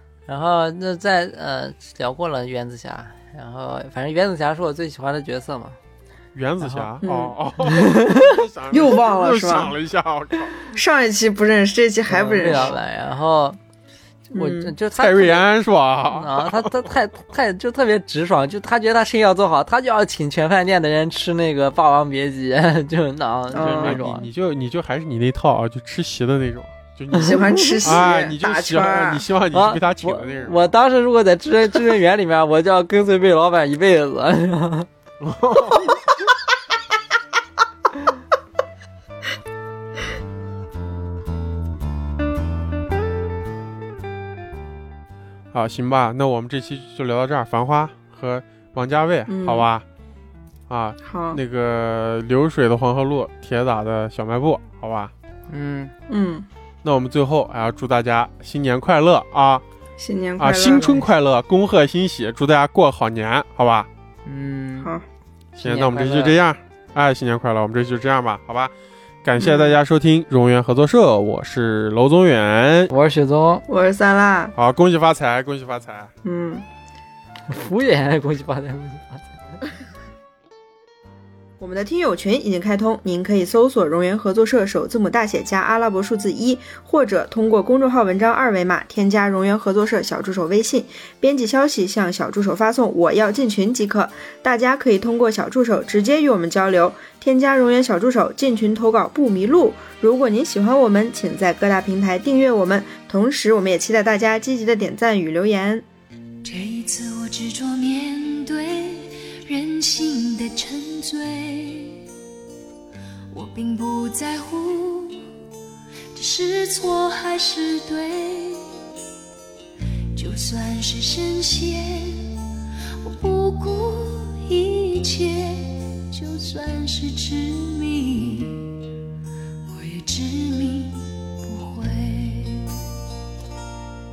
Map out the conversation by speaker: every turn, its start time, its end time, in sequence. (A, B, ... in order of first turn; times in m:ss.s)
0:00.3-0:05.8 A
0:06.3-0:10.5 B
0:06.6-0:06.9 A
0:07.0-0:08.0 C
0:07.7-0:08.2 A
0:08.7-0:09.7 C
0:10.7-0:12.8 C
0:12.1-0:13.6 A
0:14.3-0:15.5 A
0:14.3-0:14.7 C
0:15.0-0:16.9 B
0:16.0-0:24.3 A
0:23.5-0:24.0 C
0:23.6-0:30.7 B
0:27.1-0:28.0 A
0:27.2-0:29.3 C
0:29.5-0:34.9 A
0:35.2-0:36.0 B
0:45.5-0:49.8 B
0:49.3-0:49.7 C
0:50.7-0:55.1 B
0:51.0-0:51.4 C
0:55.5-0:55.9 A
0:56.1-0:56.4 C
0:56.8-0:59.6 B
1:00.0-1:01.0 C
1:00.4-1:03.9 B
1:04.2-1:04.9 A
1:05.6-1:06.4 A
1:05.6-1:08.7 B
1:09.2-1:12.9 B
1:09.4-1:09.8 C
1:12.9-1:13.6 A
1:13.7-1:14.5 C
1:14.5-1:16.1 B
1:16.2-1:16.6 C
1:17.5-1:19.3 A
1:21.6-1:45.8 C
1:46.4-1:52.0 D
1:53.3-1:55.2 D
1:56.1-1:58.7 D
2:00.1-2:02.3 D
2:03.0-2:08.7 D
2:09.7-2:12.7 D